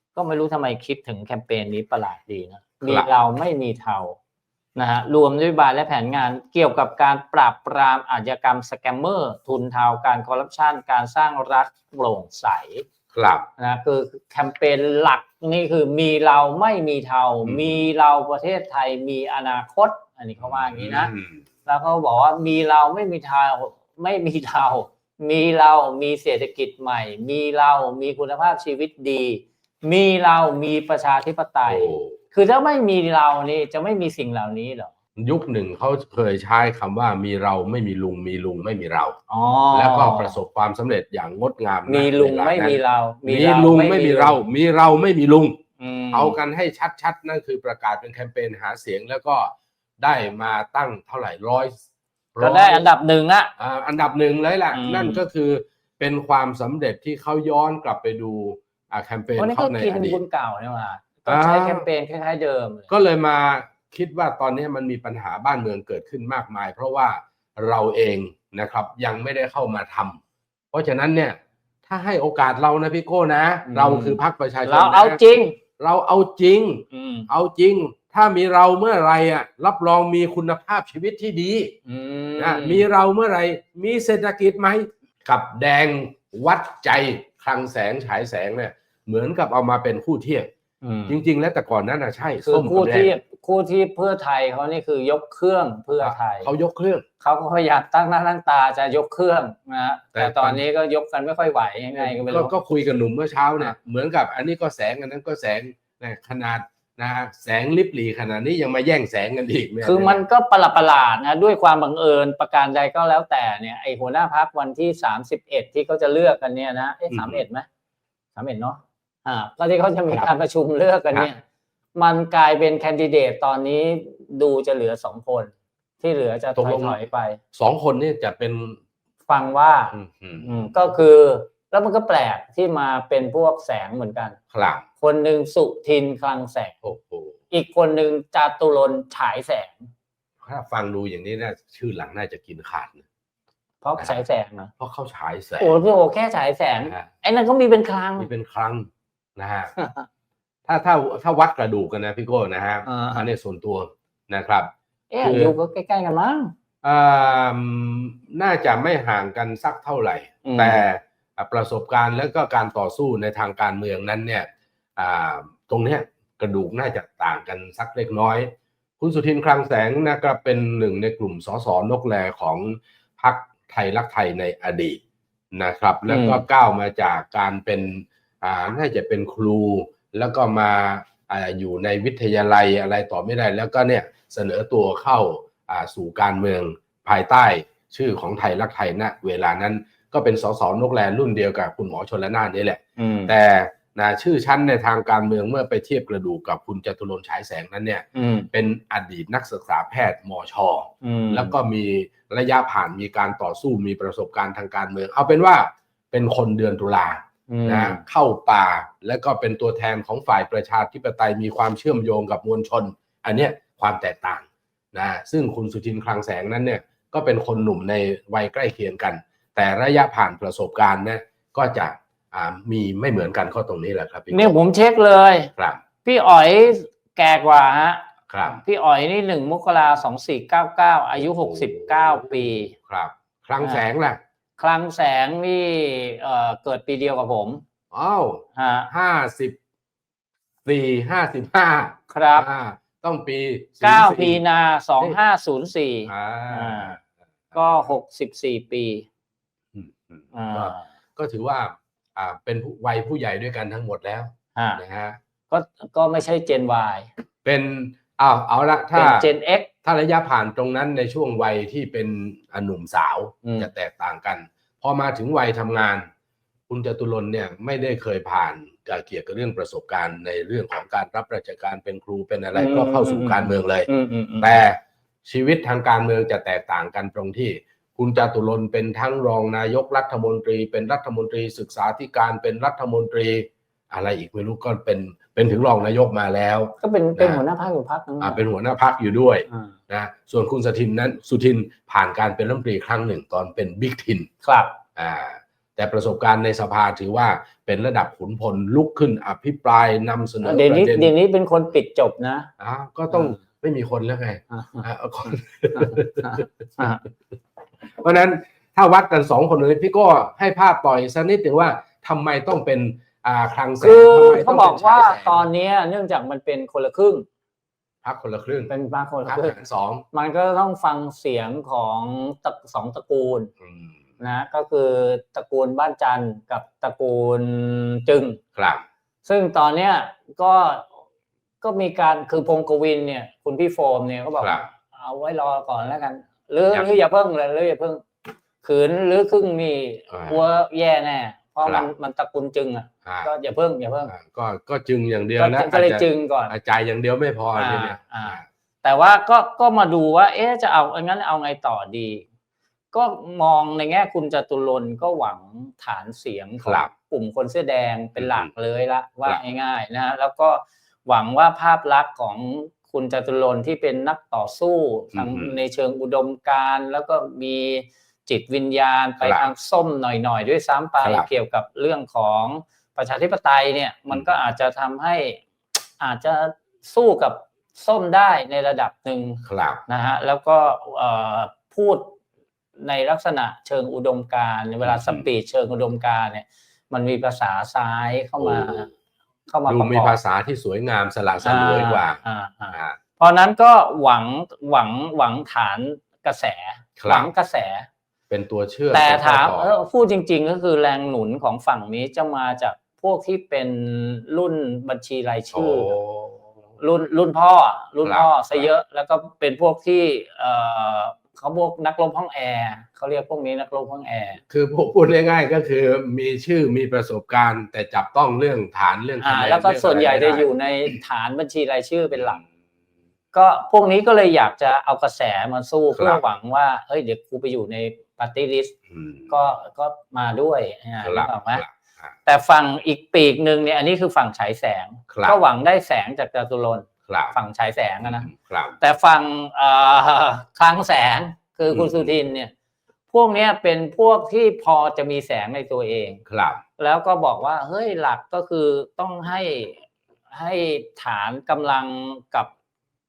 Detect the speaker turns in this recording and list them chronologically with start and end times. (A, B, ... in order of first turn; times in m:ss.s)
0:00.2-0:04.2 A
0:02.8-0:03.1 B
0:04.8-0:12.8 A
0:13.1-0:13.5 B
0:13.6-0:21.1 A
0:17.4-0:17.9 B
0:20.4-0:21.4 B
0:21.6-0:34.9 A
0:31.7-0:32.2 B
0:35.2-0:39.2 B
0:39.3-0:40.4 A
0:39.7-0:45.6 B
0:41.9-0:44.4 A
0:45.8-0:46.4 A
0:46.1-0:51.8 B
0:52.4-0:52.9 B
0:52.4-0:53.5 A
0:53.6-1:00.2 B
0:54.7-0:55.2 A
0:59.4-1:02.9 A
1:01.3-1:01.9 B
1:02.9-1:10.2 B
1:10.7-1:15.2 B
1:13.7-1:15.6 A
1:15.8-1:21.8 B
1:16.9-1:17.3 A
1:21.9-1:22.9 A
1:22.4-1:30.5 B
1:30.8-1:31.2 A
1:31.1-1:33.2 B
1:32.4-1:36.5 A
1:36.0-1:37.0 B
1:37.2-1:42.5 A
1:40.1-1:40.6 B
1:41.9-1:50.2 B
1:49.8-1:57.7 A
1:57.1-1:57.4 B
1:58.4-2:01.4 A
2:02.0-2:07.4 A
2:06.6-2:07.0 B
2:07.5-2:08.8 B
2:09.3-2:14.4 A
2:09.9-2:10.9 B
2:14.5-2:14.8 B
2:15.0-2:16.8 A
2:16.8-2:17.4 B
2:17.5-2:19.9 A
2:20.4-2:23.0 B
2:23.8-2:24.7 A
2:24.8-2:25.8 B
2:25.6-2:28.3 A
2:26.8-2:27.1 B
2:28.2-2:29.8 B
2:29.8-2:30.1 A
2:30.7-2:35.6 B
2:32.9-2:33.3 A
2:35.1-2:36.5 A
2:36.8-2:55.0 B
2:40.4-2:40.9 A
2:55.5-3:44.6 B
2:56.1-2:56.4 A
3:13.0-3:13.4 A
3:18.2-3:18.5 A
3:21.0-3:21.6 A
3:27.5-3:28.0 A
3:44.3-3:45.5 A
3:46.0-3:52.7 A
3:48.3-3:48.6 B
3:51.2-3:54.2 B
3:54.6-3:57.6 A
3:57.9-3:59.6 B
3:58.6-3:58.9 A
4:00.6-4:04.4 B
4:02.1-4:02.5 A
4:03.8-4:07.0 A
4:06.1-4:07.0 B
4:07.6-4:09.1 A
4:09.7-4:15.2 B
4:10.3-4:10.8 A
4:14.6-4:14.8 A
4:15.5-4:17.1 A
4:17.4-4:19.3 B
4:19.0-4:19.7 A
4:19.8-4:26.1 B
4:23.4-4:23.7 A
4:26.7-4:33.9 B
4:32.5-4:34.6 A
4:34.4-4:47.4 B
4:46.8-4:48.4 A
4:48.2-4:54.3 B
4:54.4-4:54.8 A
4:55.0-5:01.1 B
5:00.4-5:02.5 A
5:02.6-5:06.5 B
5:03.1-5:03.4 A
5:04.5-5:07.1 A
5:07.9-5:15.5 B
5:13.8-5:17.2 A
5:18.0-5:18.7 B
5:18.7-5:19.6 A
5:19.3-5:20.0 B
5:20.1-5:23.5 A
5:23.6-5:24.0 B
5:24.2-5:28.4 A
5:28.6-5:28.8 B
5:29.2-5:30.9 A
5:31.6-5:38.0 A
5:34.4-5:34.7 B
5:36.7-5:37.0 B
5:38.6-5:44.1 A
5:40.1-5:40.4 B
5:41.6-5:41.9 B
5:43.1-5:43.3 B
5:44.1-5:48.4 B
5:45.4-5:46.5 A
5:47.6-5:52.2 A
5:52.9-6:15.4 A
5:56.6-5:56.9 B
5:58.2-5:58.5 B
6:05.1-6:05.6 B
6:09.2-6:09.5 B
6:11.0-6:11.3 B
6:16.0-6:22.2 A
6:19.4-6:19.8 B
6:22.8-6:28.9 A
6:24.8-6:25.3 B
6:28.4-6:28.9 B
6:29.5-6:30.2 A
6:29.7-6:32.2 B
6:31.4-6:37.9 A
6:32.7-6:33.0 B
6:37.0-6:37.3 B
6:38.3-6:39.8 B
6:38.9-6:45.9 A
6:45.5-6:46.4 B
6:46.8-6:54.4 A
6:48.0-6:48.7 B
6:54.5-7:01.0 B
6:59.2-7:02.4 A
7:03.3-7:08.8 A
7:05.9-7:06.2 B
7:08.9-7:09.4 B
7:09.3-7:11.6 A
7:11.0-7:12.1 B
7:12.3-7:22.5 A
7:15.1-7:15.4 B
7:17.1-7:17.4 B
7:18.0-7:18.8 B
7:21.7-7:22.1 B
7:23.1-7:26.2 A
7:26.3-7:26.6 B
7:26.8-7:32.5 A